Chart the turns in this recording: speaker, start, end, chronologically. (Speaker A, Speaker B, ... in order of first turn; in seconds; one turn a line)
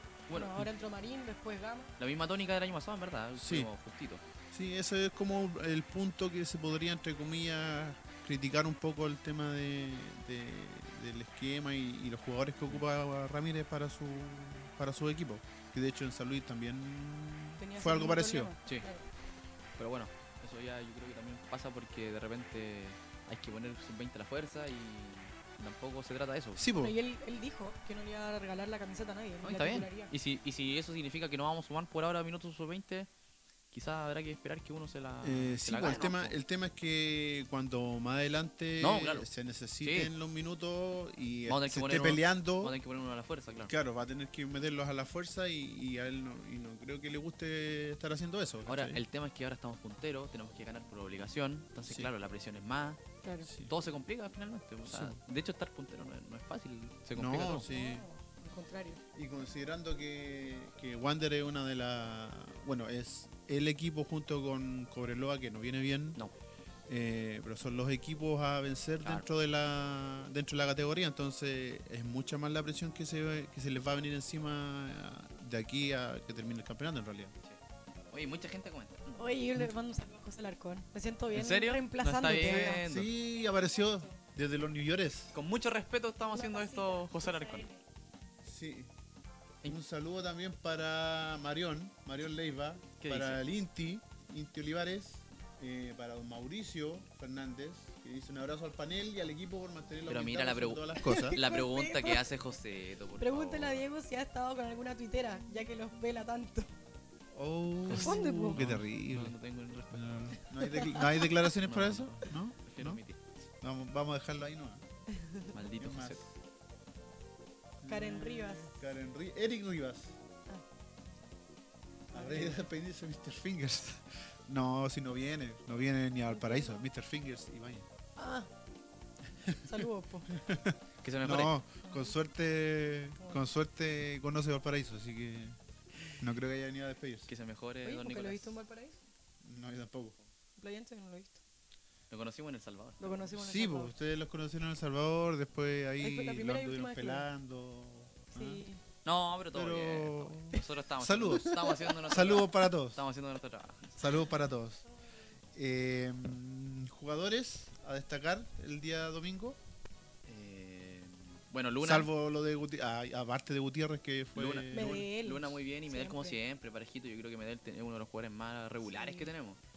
Speaker A: 0.3-0.6
Speaker B: 0.3-1.9
Speaker A: 2.0-4.2
Speaker C: 3.4-3.7
Speaker C: 4.5-18.5
Speaker B: 17.6-19.1
Speaker A: 19.8-26.6
Speaker C: 26.6-26.9
Speaker B: 26.8-30.1
Speaker A: 29.4-33.1
Speaker A: 33.7-36.4
Speaker C: 35.2-42.8
Speaker A: 38.8-39.3
Speaker A: 39.8-40.1
Speaker A: 41.5-43.7
Speaker C: 43.6-49.0
Speaker A: 48.6-53.0
Speaker C: 53.5-53.7
Speaker A: 53.6-57.6
Speaker C: 54.8-55.2
Speaker C: 57.1-58.0
Speaker B: 57.5-59.0
Speaker C: 59.1-66.2
Speaker C: 66.9-77.3
Speaker A: 78.1-79.3
Speaker B: 79.2-82.8
Speaker A: 81.3-83.1
Speaker C: 82.3-85.3
Speaker A: 85.3-87.6
Speaker B: 86.3-87.8
Speaker C: 88.4-88.9
Speaker C: 89.6-101.4
Speaker A: 93.0-93.4
Speaker A: 100.1-103.9
Speaker B: 101.0-102.2
Speaker B: 103.2-106.7
Speaker C: 107.3-109.3
Speaker B: 107.9-108.6
Speaker A: 107.9-110.3
Speaker C: 109.9-113.0
Speaker B: 110.6-110.9
Speaker A: 111.3-113.2
Speaker C: 113.6-114.8
Speaker B: 115.1-115.5
Speaker A: 115.5-116.2
Speaker C: 115.8-116.3
Speaker C: 117.8-120.2
Speaker B: 117.9-118.8
Speaker C: 122.1-127.8
Speaker B: 122.1-122.6
Speaker B: 126.3-126.8
Speaker B: 128.2-128.5
Speaker C: 129.4-135.6
Speaker B: 129.6-130.3
Speaker A: 131.0-131.6
Speaker B: 131.8-132.1
Speaker C: 136.2-137.3
Speaker A: 137.3-138.6
Speaker B: 137.8-139.0
Speaker C: 139.4-140.2
Speaker B: 140.6-141.4
Speaker A: 142.1-143.2
Speaker B: 143.0-143.9
Speaker C: 143.3-148.6
Speaker B: 146.0-147.3
Speaker B: 148.3-148.8
Speaker A: 149.0-154.0
Speaker C: 149.5-153.0
Speaker C: 154.0-154.8
Speaker C: 155.5-159.6
Speaker A: 160.2-162.1
Speaker C: 161.8-165.1
Speaker A: 164.3-169.6
Speaker B: 164.7-166.4
Speaker B: 168.8-169.3